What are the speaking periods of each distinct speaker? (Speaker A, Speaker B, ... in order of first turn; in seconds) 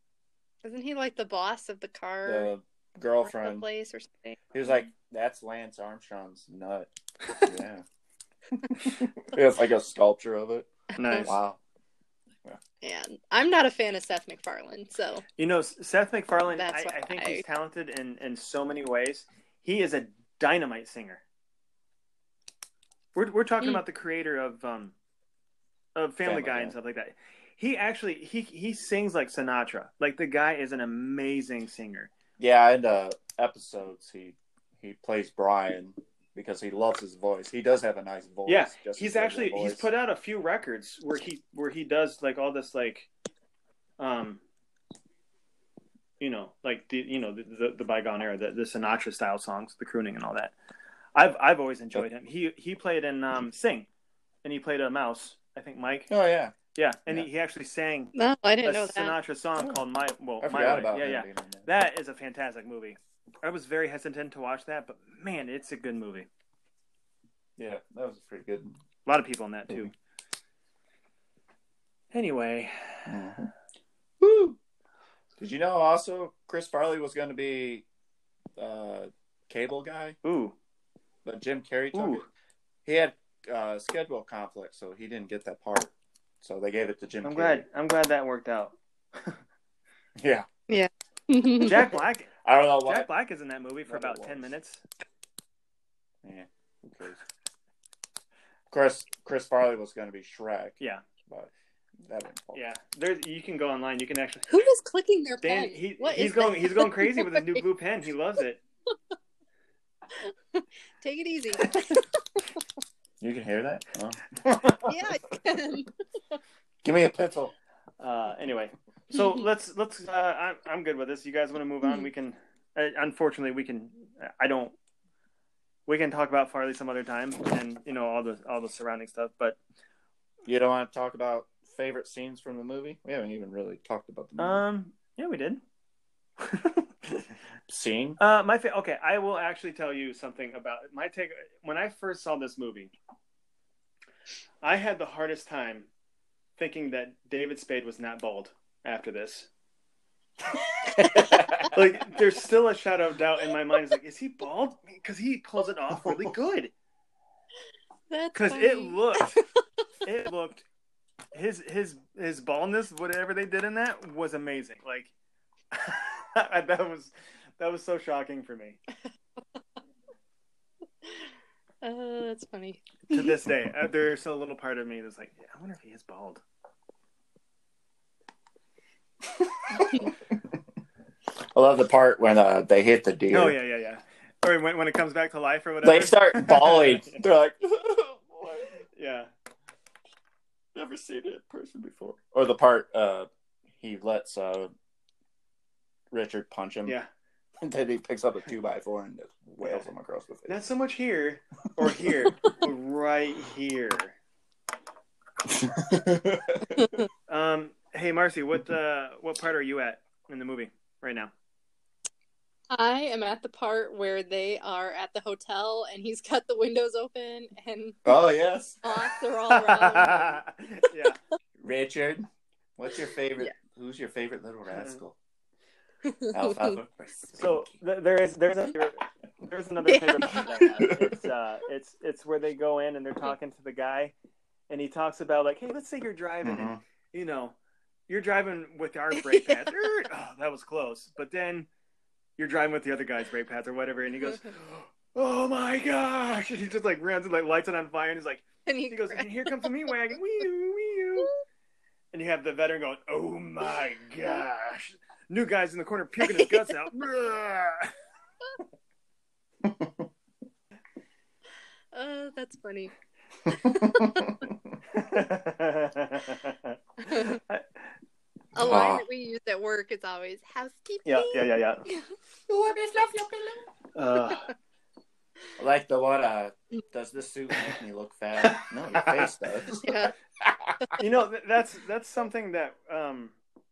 Speaker A: 0.6-2.5, 3.2-4.4, 12.8-15.2, 16.6-17.4, 58.1-59.2, 90.7-91.8, 104.5-107.6, 110.2-112.0, 114.8-115.9, 119.1-119.4, 121.8-122.1, 158.1-159.4, 171.8-173.3, 212.7-218.0, 218.8-220.4, 226.1-226.8, 229.9-230.8, 239.2-239.6, 248.7-249.7, 256.2-256.5, 261.9-262.9, 263.5-264.2, 268.6-272.1, 279.8-280.1
Speaker B: 2.2-3.6, 4.5-6.9, 7.4-7.8, 8.6-11.6, 26.2-26.8, 32.4-39.9, 56.1-56.6, 60.4-61.7, 67.6-68.8, 73.1-73.5, 74.2-74.6, 75.4-77.8, 78.6-80.2, 81.2-82.3, 82.8-87.7, 90.2-90.5, 92.4-93.1, 93.9-94.5, 96.2-97.2, 98.7-101.5, 102.0-102.7, 113.2-115.0, 116.8-117.5, 130.5-134.6, 137.7-138.2, 150.9-151.8, 156.0-156.3, 179.4-180.4, 181.5-183.6, 185.8-188.8, 190.8-193.3, 193.8-194.7, 196.1-197.0, 197.6-200.6, 201.8-202.1, 205.5-207.0, 218.1-219.0, 221.6-222.3, 222.8-225.2, 226.3-227.7, 230.8-231.2, 236.4-236.8, 259.6-260.1, 263.5-264.8, 268.6-269.1, 272.5-273.6, 275.6-281.0
Speaker C: 11.0-11.4, 15.4-21.2, 23.1-24.9, 25.9-32.1, 38.5-43.1, 44.0-44.4, 46.2-50.5, 51.1-53.9, 54.4-56.1, 56.8-66.3, 69.1-69.9, 72.1-73.2, 80.2-80.5, 81.9-82.2, 87.2-89.4, 91.6-94.8, 102.5-104.5, 105.4-108.6, 118.0-124.8, 125.9-129.6, 134.4-135.6, 136.4-137.3, 138.2-142.9, 144.6-145.9, 146.6-149.5, 151.6-156.7, 158.3-159.4, 160.0-160.7, 161.3-165.1, 165.7-168.8, 173.1-176.4, 183.3-187.2, 188.9-189.3, 199.6-199.9, 200.5-204.2, 207.3-211.3, 219.5-221.2, 224.7-225.0, 227.3-234.1, 234.7-237.6, 238.1-241.7, 242.4-251.3, 252.1-257.9, 264.9-267.6, 271.1-271.8, 273.9-274.5, 278.4-279.3, 281.0-283.4